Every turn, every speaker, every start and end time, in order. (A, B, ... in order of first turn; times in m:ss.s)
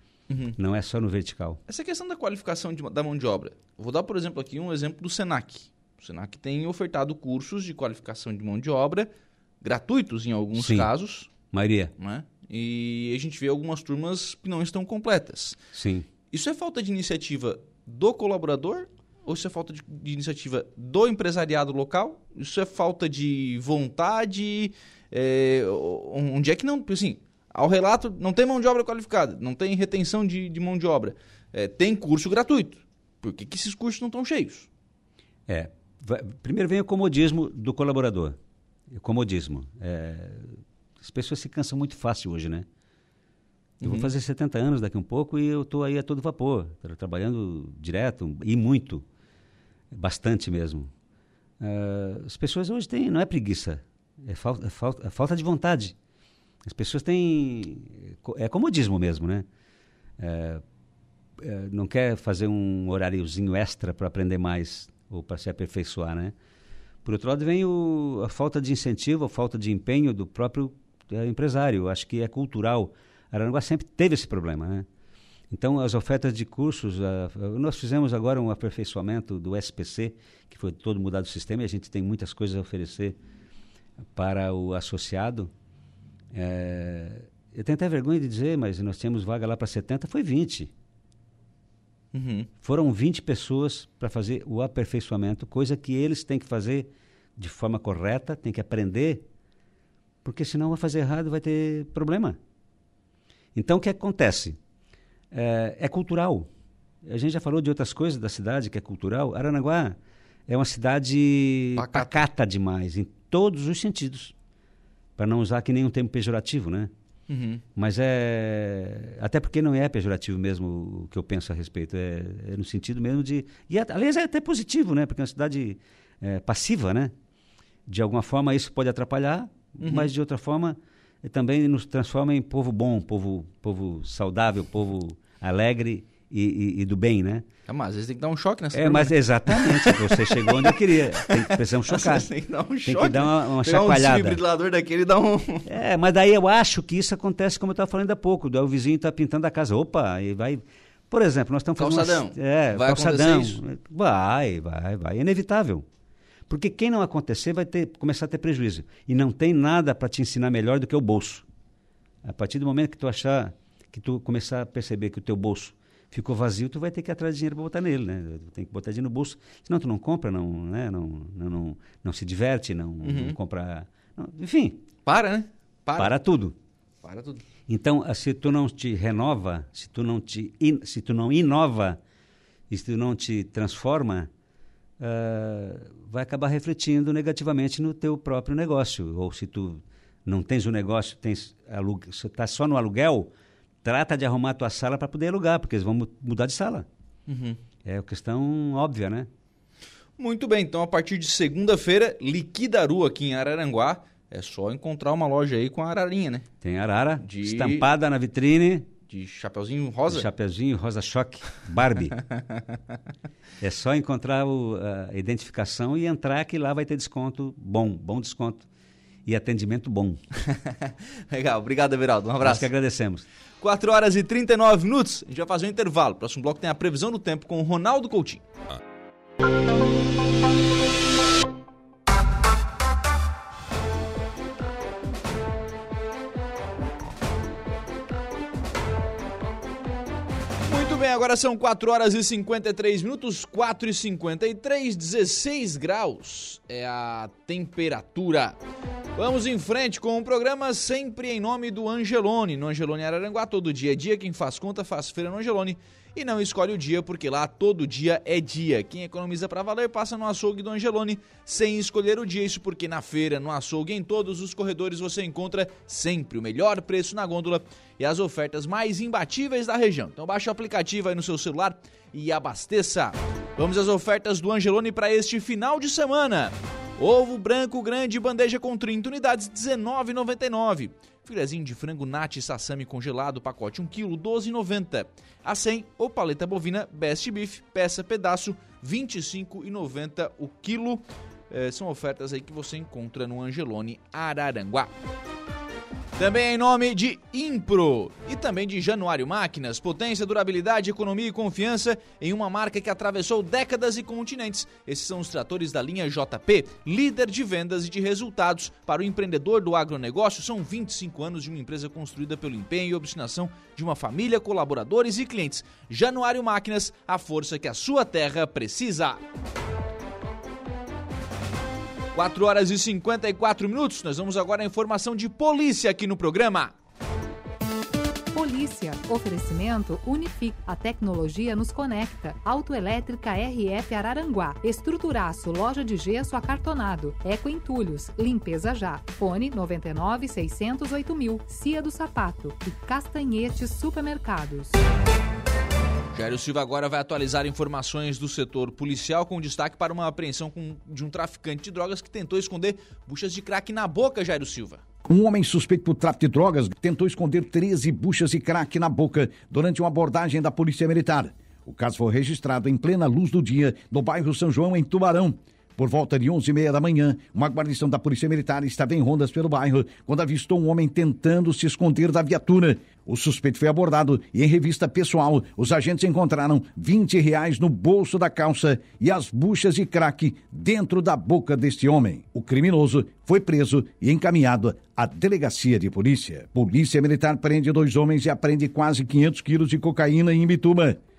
0:00.3-0:00.6 A
0:00.6-0:01.6 B
0:01.7-0:09.1 A
0:09.6-0:11.3 A
0:10.6-0:10.9 B
0:11.5-0:11.9 B
0:12.0-0:15.6 A
0:15.7-0:16.1 B
0:16.3-0:34.7 A
0:35.5-0:38.4 B
0:38.9-0:42.7 B
0:43.8-0:44.1 A
0:43.8-0:49.0 B
0:49.9-0:50.9 B
0:51.6-0:56.0 B
0:56.6-0:59.5 B
1:00.2-1:00.6 B
1:01.4-1:06.4 B
1:07.0-1:14.9 B
1:15.5-1:23.2 B
1:24.1-1:25.5 B
1:26.3-1:30.7 B
1:32.1-1:32.5 A
1:32.6-1:39.3 B
1:40.2-1:42.4 B
1:43.6-1:44.6 B
1:45.3-1:46.5 B
1:47.0-1:50.0 B
1:50.5-1:54.3 B
1:51.8-1:52.2 A
1:55.2-1:56.9 B
1:57.3-1:57.6 A
1:57.8-2:07.1 B
2:07.9-2:17.5 B
2:09.8-2:10.1 A
2:17.7-2:25.7 A
2:18.7-2:22.3 B
2:22.8-2:24.4 B
2:25.7-2:35.9 B
2:31.8-2:33.6 A
2:36.5-2:41.4 B
2:42.2-2:54.8 B
2:53.0-2:53.4 A
2:55.1-2:56.2 A
2:56.0-2:56.6 B
2:57.0-2:57.4 A
2:57.7-3:02.0 B
3:02.7-3:04.3 B
3:05.0-3:13.3 B
3:13.8-3:16.9 B
3:17.3-3:17.6 A
3:17.8-3:19.3 B
3:20.2-3:26.5 A
3:26.6-3:28.9 B
3:27.2-3:27.9 A
3:29.1-3:30.3 A
3:30.1-3:32.2 B
3:32.2-3:32.6 A
3:33.6-3:38.7 B
3:39.3-3:40.2 B
3:40.9-3:42.7 A
3:42.4-3:43.2 B
3:43.6-3:48.4 A
4:00.6-4:08.6 A
4:09.2-4:54.9 A
4:56.2-5:19.2 A
5:22.1-5:26.7 A
5:28.3-5:44.8 C
5:46.1-5:54.8 A
5:55.1-6:31.0 D